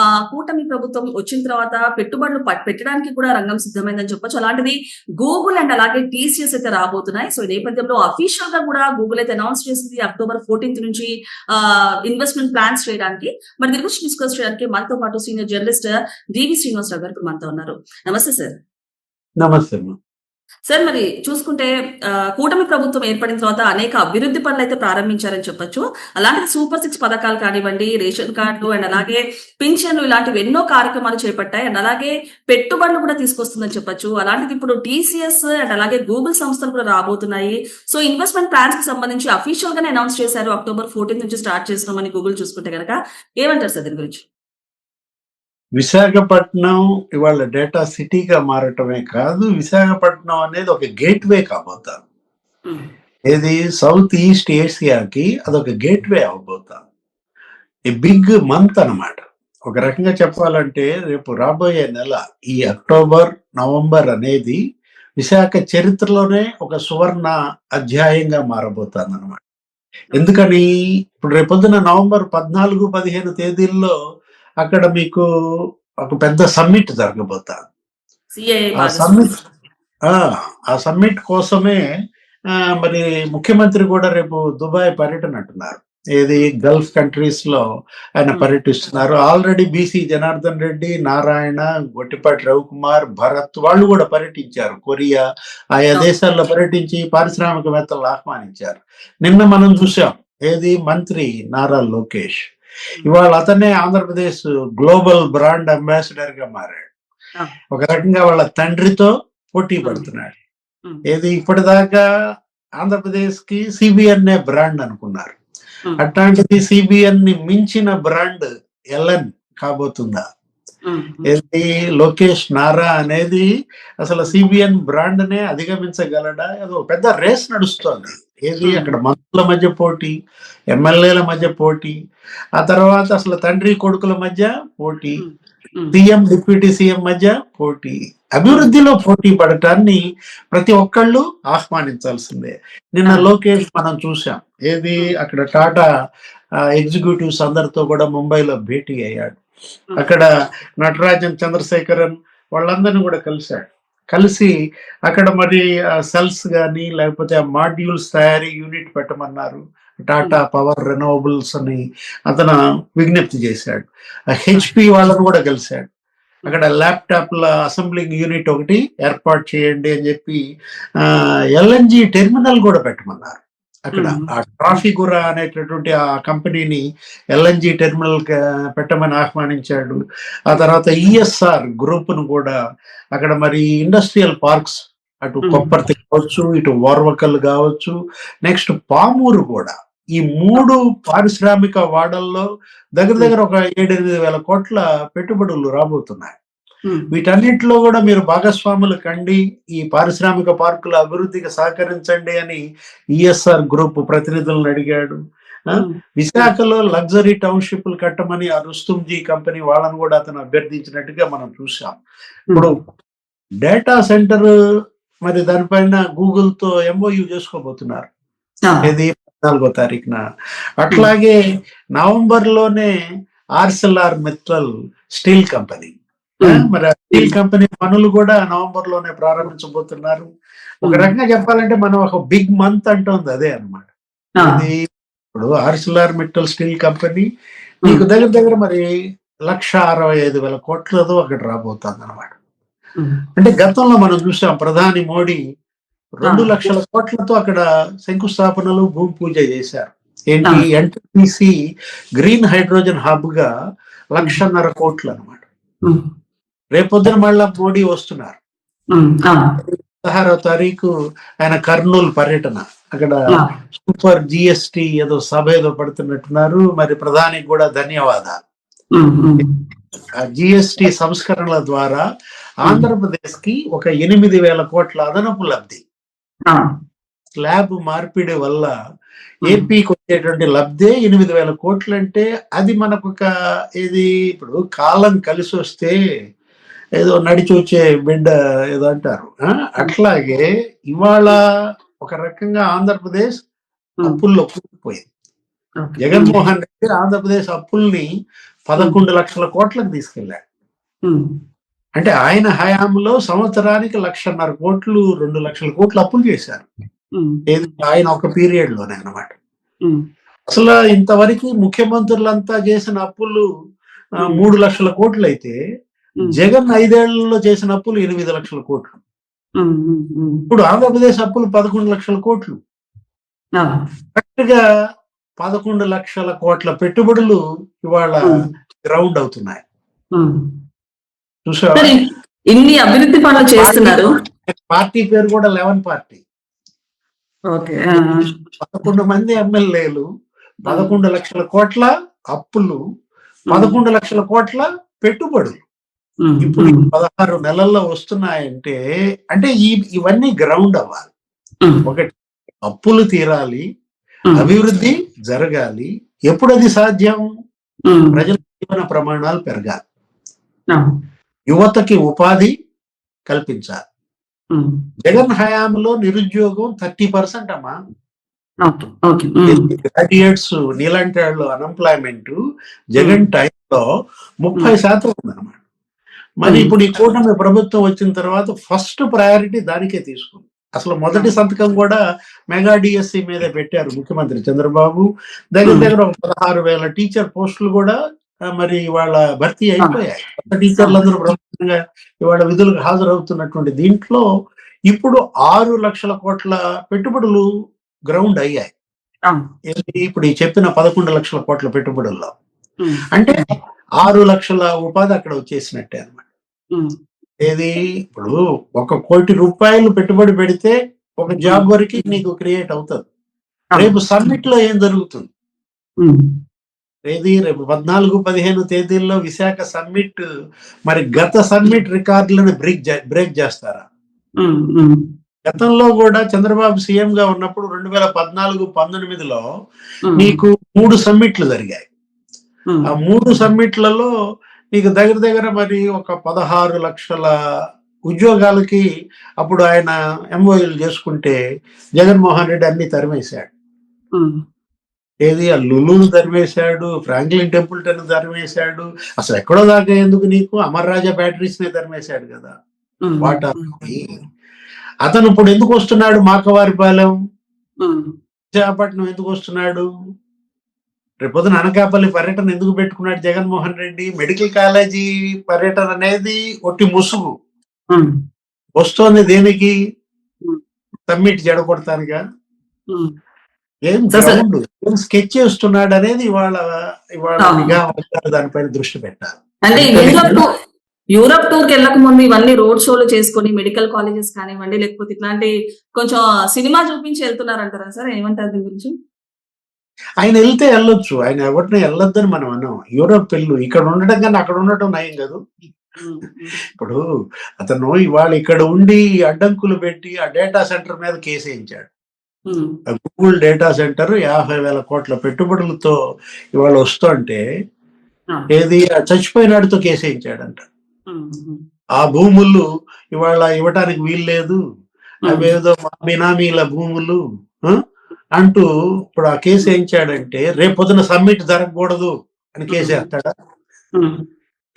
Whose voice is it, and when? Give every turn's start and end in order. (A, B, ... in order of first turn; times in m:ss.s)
0:00.2-0:18.5 A
0:19.4-0:20.0 B
0:20.7-0:21.7 A
0:22.3-0:44.2 A
0:45.8-0:52.0 B
0:53.3-0:56.8 B
0:57.9-1:04.6 B
1:05.2-1:09.4 B
1:10.1-1:10.6 B
1:11.2-1:13.9 B
1:14.6-1:15.2 B
1:16.0-1:17.6 B
1:18.4-1:19.3 A
1:18.8-1:19.3 B
1:20.1-1:21.8 B
1:22.8-1:27.6 B
1:28.2-1:35.2 B
1:35.8-1:42.4 B
1:43.0-1:46.9 B
1:47.8-1:50.3 B
1:49.8-1:50.1 A
1:51.1-1:52.0 B
1:52.8-1:55.4 B
1:56.0-2:00.2 B
2:00.9-2:01.4 A
2:01.2-2:03.4 B
2:04.0-2:10.1 B
2:08.6-2:09.0 A
2:10.7-2:11.9 B
2:12.6-2:15.2 B
2:15.2-2:16.0 A
2:15.9-2:20.0 B
2:18.5-2:18.7 A
2:20.5-2:25.8 B
2:26.8-2:29.4 B
2:30.0-2:30.2 B
2:30.8-2:34.5 B
2:35.1-2:45.9 B
2:46.5-2:50.4 B
2:51.6-2:53.4 B
2:53.9-2:56.8 B
2:53.9-2:54.3 A
2:57.3-3:02.6 B
3:03.2-3:07.9 B
3:05.4-3:05.7 A
3:08.5-3:12.4 B
3:13.0-3:16.4 B
3:16.9-3:17.1 A
3:17.1-3:22.6 B
3:23.2-3:25.2 B
3:25.7-3:26.5 A
3:26.2-3:32.0 B
3:33.6-3:34.5 B
3:35.3-3:38.1 B
3:38.8-3:40.2 B
3:40.8-3:41.3 B
3:42.0-3:42.9 B
3:43.6-3:44.7 B
3:45.2-3:50.3 B
3:46.4-3:47.3 A
3:50.8-3:51.1 A
3:50.8-3:54.8 B
3:55.3-3:57.2 B
3:57.8-3:58.8 B
3:59.5-4:02.3 B
4:03.4-4:05.4 B
4:06.2-4:11.5 B
4:06.3-4:06.7 A
4:12.2-4:13.5 B
4:14.1-4:15.4 B
4:16.8-4:18.4 B
4:18.9-4:19.6 A
4:19.6-4:20.9 B
4:21.4-4:23.1 B
4:23.3-4:23.6 A
4:23.8-4:28.4 B
4:29.0-4:29.6 A
4:30.3-4:32.0 B
4:32.6-4:35.8 B
4:37.4-4:38.7 B
4:39.5-4:43.2 B
4:43.8-4:45.9 B
4:47.0-4:51.4 B
4:52.0-4:53.3 B
4:54.0-4:55.0 B
4:55.8-4:56.4 A
4:56.0-4:58.0 B
4:58.7-5:00.4 B
4:58.8-4:59.0 A
5:02.0-5:06.6 B
5:07.2-5:07.8 A
5:07.5-5:09.3 B
5:10.5-5:13.4 B
5:14.2-5:14.5 A
5:14.2-5:15.5 B
5:16.2-5:19.0 B
5:19.6-5:20.4 A
5:20.5-5:22.6 B
5:24.2-5:24.6 B
5:25.4-5:29.6 B
5:31.5-5:31.9 B
5:32.5-5:34.0 A
5:33.6-5:36.2 B
5:37.5-5:38.3 A
5:37.9-5:40.0 B
5:40.7-5:40.9 A
5:40.7-5:42.8 B
5:43.5-5:43.8 A
5:43.5-5:45.6 B
5:46.2-5:46.9 A
5:46.4-5:48.8 B
5:49.3-5:51.1 B
5:51.8-5:52.1 B
5:52.7-5:53.6 B
5:54.4-5:57.2 B
5:57.9-5:58.2 A
5:58.1-5:59.8 B
6:01.5-6:02.5 B
6:03.3-6:03.8 B
6:05.0-6:07.7 B
6:08.6-6:09.7 A
6:09.5-6:12.4 B
6:13.0-6:13.3 A
6:13.0-6:13.8 B
6:14.4-6:15.6 B
6:16.4-6:22.0 B
6:16.4-6:16.7 A
6:22.5-6:28.0 B
6:25.6-6:25.9 A
6:28.5-6:34.2 B
6:30.8-6:31.0 A
6:34.9-6:37.4 B
6:38.1-6:38.7 B
6:39.7-6:42.3 B
6:42.8-6:43.5 A
6:43.1-6:43.4 B
6:44.0-6:46.2 B
6:47.4-6:53.0 B
6:51.4-6:52.2 A
6:53.7-6:54.4 A
6:53.8-6:55.3 B
6:57.1-7:00.2 B
7:00.9-7:03.8 B
7:04.4-7:05.0 A
7:05.5-7:09.4 B
7:10.1-7:10.4 A
7:10.2-7:11.9 B
7:12.7-7:13.5 A
7:12.9-7:14.1 B
7:14.7-7:17.3 B
7:18.1-7:18.8 B
7:19.4-7:21.4 B
7:22.0-7:23.5 B
7:25.2-7:32.5 B
7:33.0-7:33.9 A
7:33.2-7:34.2 B
7:35.0-7:37.1 B
7:37.8-7:38.1 A
7:38.5-7:39.8 B
7:41.2-7:47.3 B
7:48.8-7:49.7 B
7:51.1-7:52.2 B
7:53.9-7:56.6 B
7:54.1-7:54.4 A
7:57.2-8:00.4 B
7:57.4-7:57.7 A
7:59.7-8:00.4 A
8:01.2-8:08.9 A
8:10.2-8:15.4 B
8:16.0-8:16.6 A
8:16.7-8:17.0 B
8:17.6-8:21.9 B
8:22.5-8:22.8 A
8:23.0-8:26.0 B
8:26.6-8:27.4 B
8:28.5-8:30.6 B
8:31.1-8:31.6 A
8:32.0-8:32.6 B
8:33.2-8:34.6 B
8:35.2-8:35.5 A
8:35.3-8:37.8 B
8:38.4-8:43.3 B
8:42.7-8:43.0 A
8:44.0-8:44.2 A